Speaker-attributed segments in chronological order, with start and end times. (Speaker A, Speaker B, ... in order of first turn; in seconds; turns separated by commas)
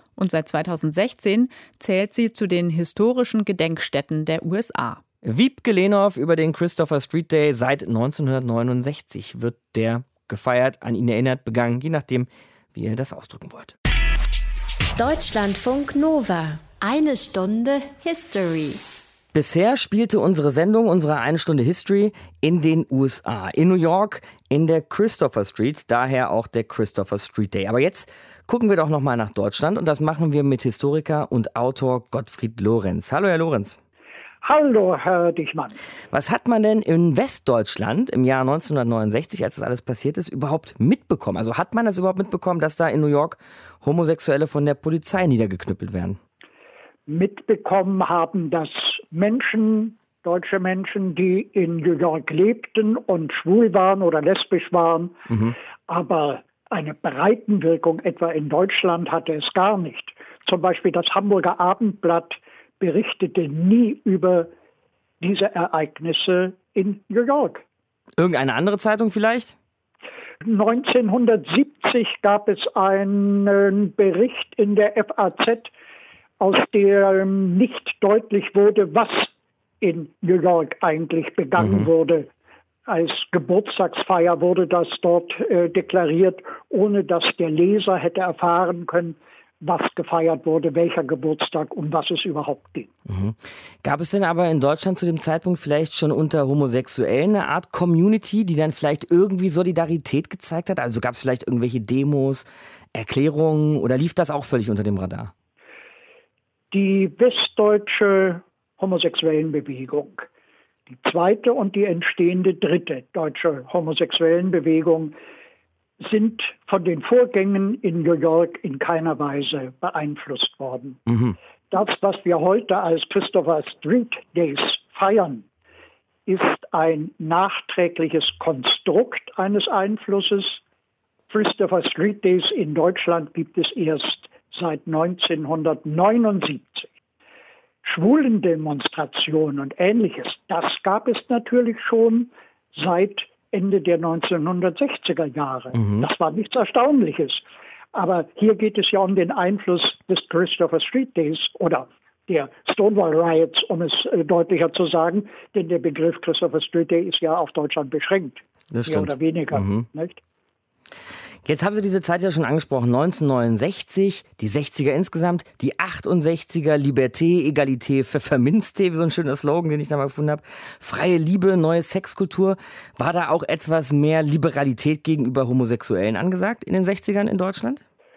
Speaker A: 0.2-5.0, Speaker B: 5.2-13.7, Speaker C: 15.0-18.8, Speaker B: 19.3-33.8, Speaker D: 34.4-35.8, Speaker B: 36.1-46.2, Speaker D: 47.1-55.2, Speaker D: 55.9-64.5, Speaker D: 65.2-67.6, Speaker B: 68.2-69.5, Speaker D: 70.4-75.7, Speaker D: 76.4-79.3, Speaker D: 79.8-82.3, Speaker B: 81.6-81.9, Speaker D: 82.9-92.9, Speaker B: 93.1-105.3, Speaker D: 106.7-110.3, Speaker D: 110.9-115.2, Speaker D: 116.0-121.0, Speaker B: 121.1-121.4, Speaker D: 121.7-125.5, Speaker D: 126.3-130.6, Speaker D: 131.3-136.9, Speaker D: 137.8-160.2, Speaker B: 145.8-146.1, Speaker B: 158.7-159.9, Speaker B: 161.4-177.8